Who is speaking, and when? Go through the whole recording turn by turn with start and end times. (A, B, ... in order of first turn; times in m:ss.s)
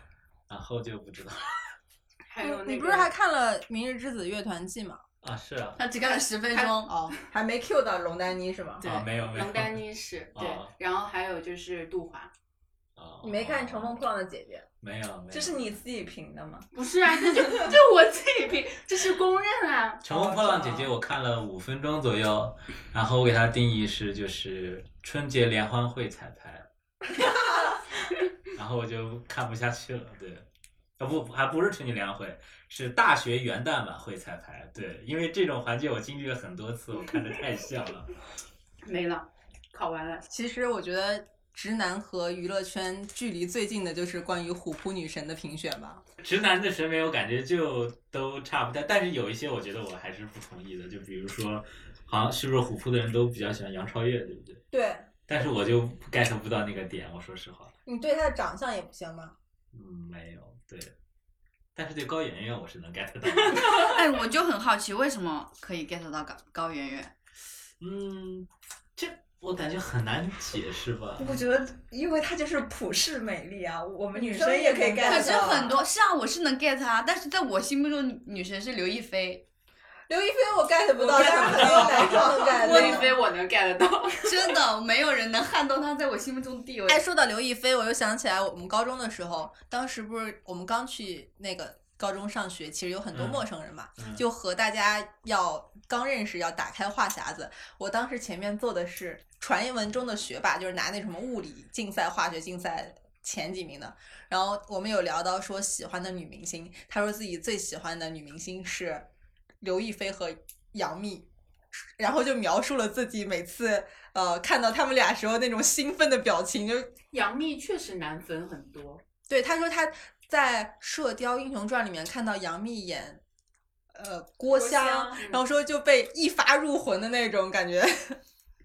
0:00.5-0:01.5 A
0:02.3-0:03.1 B
0:02.4-0:05.0 C
0:05.2-0:05.8 A
0:05.8-0:06.9 D
0:06.8-0:08.8 C
0:08.8-0:12.3 B
0:08.8-0:10.7 A
0:13.0-0:14.0 A
0:13.2-0:14.7 C
0:14.8-0:15.7 A
0:15.3-0:16.7 E
0:16.7-0:20.0 B
0:20.0-0:26.7 A
0:20.1-0:20.9 E
0:28.5-0:30.5 A
0:31.0-0:38.1 A
0:38.8-0:40.3 B
0:40.3-0:46.0 C
0:46.2-0:54.6 A
0:54.7-0:55.1 C
0:55.3-0:57.7 A
0:57.9-0:59.4 C
0:59.7-1:00.9 A
1:01.8-1:04.0 A
1:03.7-1:07.1 D
1:07.8-1:11.4 A
1:11.2-1:15.7 E
1:14.1-1:15.8 C
1:15.0-1:19.4 D
1:20.1-1:23.1 C
1:21.0-1:23.1 E
1:21.2-1:24.4 B
1:24.2-1:27.0 D
1:26.9-1:49.1 C
1:33.1-1:33.4 A
1:34.0-1:34.2 A
1:49.6-1:51.3 C
1:52.0-1:56.9 C
1:57.1-1:59.0 B
1:59.3-2:03.2 C
2:04.0-2:08.2 C
2:04.5-2:05.2 E
2:05.2-2:05.4 B